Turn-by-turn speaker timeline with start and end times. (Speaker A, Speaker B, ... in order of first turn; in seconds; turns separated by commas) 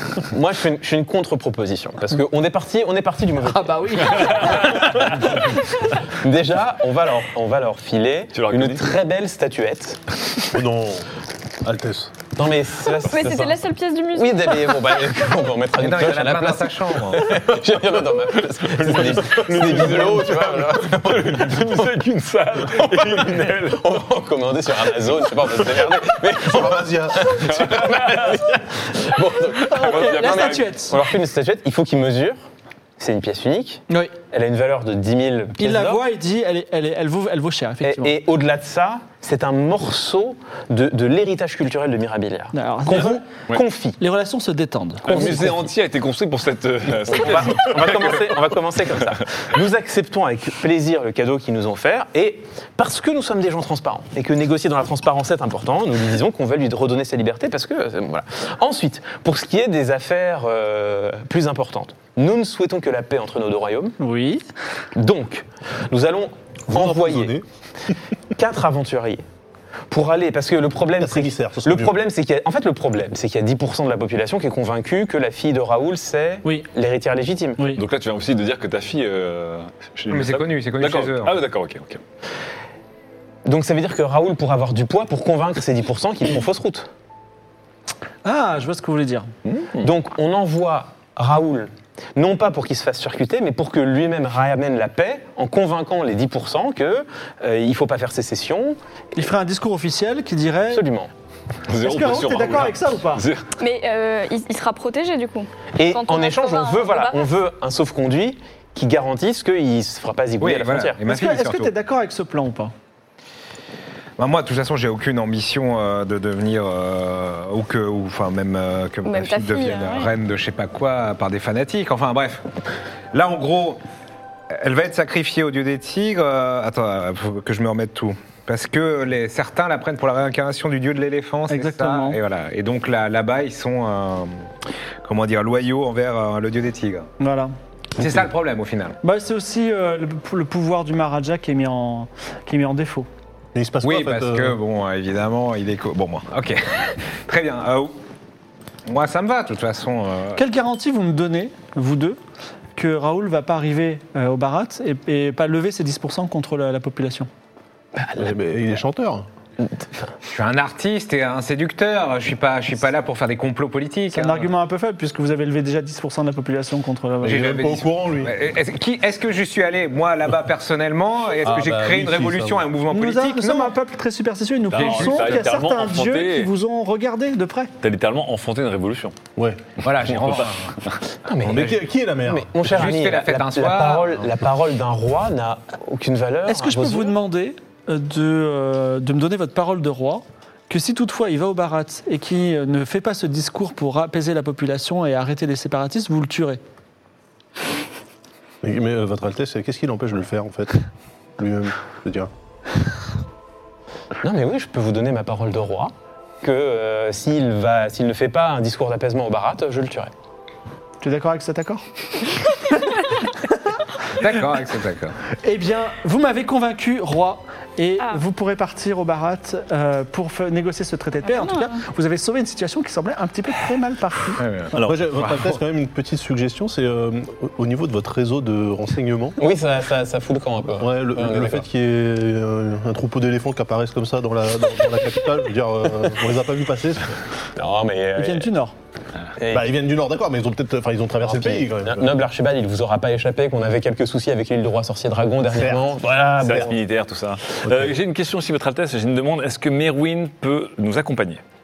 Speaker A: 0.3-10.0, Speaker B: 3.5-5.0, Speaker C: 4.1-5.4, Speaker C: 8.3-8.9, Speaker D: 10.5-11.1, Speaker D: 11.6-12.1, Speaker A: 12.4-13.6, Speaker E: 13.1-15.2, Speaker A: 14.1-21.8, Speaker F: 15.8-17.4, Speaker C: 18.8-23.8, Speaker D: 19.5-20.3, Speaker A: 22.7-32.4, Speaker D: 26.4-27.6, Speaker C: 27.4-28.5, Speaker B: 29.6-31.0, Speaker C: 29.7-30.8, Speaker A: 33.0-36.0, Speaker B: 35.6-38.1, Speaker A: 37.8-44.0, Speaker B: 42.5-43.2, Speaker B: 44.0-45.5, Speaker C: 45.0-48.4, Speaker A: 45.1-45.6, Speaker A: 47.1-64.0, Speaker B: 64.0-64.4, Speaker A: 65.0-67.4, Speaker D: 66.7-67.5, Speaker A: 68.3-69.2, Speaker A: 69.9-77.6, Speaker D: 71.0-72.0, Speaker C: 77.7-82.0, Speaker F: 80.1-81.4, Speaker A: 83.5-86.9, Speaker B: 88.2-89.3, Speaker C: 89.5-89.9, Speaker A: 89.8-98.8, Speaker B: 99.2-100.9, Speaker A: 100.7-101.1, Speaker C: 101.7-103.5, Speaker B: 101.8-103.2, Speaker E: 103.6-107.3, Speaker A: 105.8-111.0, Speaker F: 110.4-111.7, Speaker B: 111.0-112.7, Speaker F: 114.2-122.4, Speaker E: 119.0-120.1, Speaker F: 123.1-123.8, Speaker F: 124.5-134.5, Speaker B: 131.5-132.2, Speaker F: 135.0-137.1, Speaker B: 137.2-137.5, Speaker F: 138.0-139.0, Speaker B: 139.0-143.1, Speaker D: 143.6-144.6, Speaker F: 143.8-148.0, Speaker F: 148.9-150.4, Speaker B: 150.4-152.2, Speaker B: 152.8-157.3, Speaker D: 158.2-159.3, Speaker F: 160.3-164.5, Speaker B: 164.1-167.5, Speaker D: 167.2-168.3, Speaker F: 167.2-173.7, Speaker D: 171.4-172.7, Speaker B: 172.9-177.7, Speaker C: 174.7-176.5, Speaker F: 174.8-175.4, Speaker C: 177.8-179.2, Speaker D: 179.4-179.6, Speaker F: 179.8-180.7, Speaker C: 180.0-181.0, Speaker A: 181.3-187.2, Speaker D: 181.4-182.8, Speaker F: 182.7-184.2, Speaker B: 186.5-196.6, Speaker D: 198.6-200.8, Speaker D: 201.4-202.3, Speaker A: 204.2-210.1, Speaker B: 211.0-211.8, Speaker B: 212.5-213.1, Speaker F: 214.1-215.2, Speaker B: 215.4-224.4, Speaker E: 221.2-221.8, Speaker F: 224.4-224.7, Speaker C: 224.8-225.2, Speaker D: 224.8-229.4, Speaker A: 229.4-231.7, Speaker D: 230.8-237.2, Speaker A: 237.6-238.5, Speaker B: 238.2-238.7, Speaker A: 239.4-239.7, Speaker D: 239.5-242.1, Speaker A: 241.2-246.8, Speaker D: 245.4-246.0, Speaker C: 246.4-251.4, Speaker D: 247.6-247.9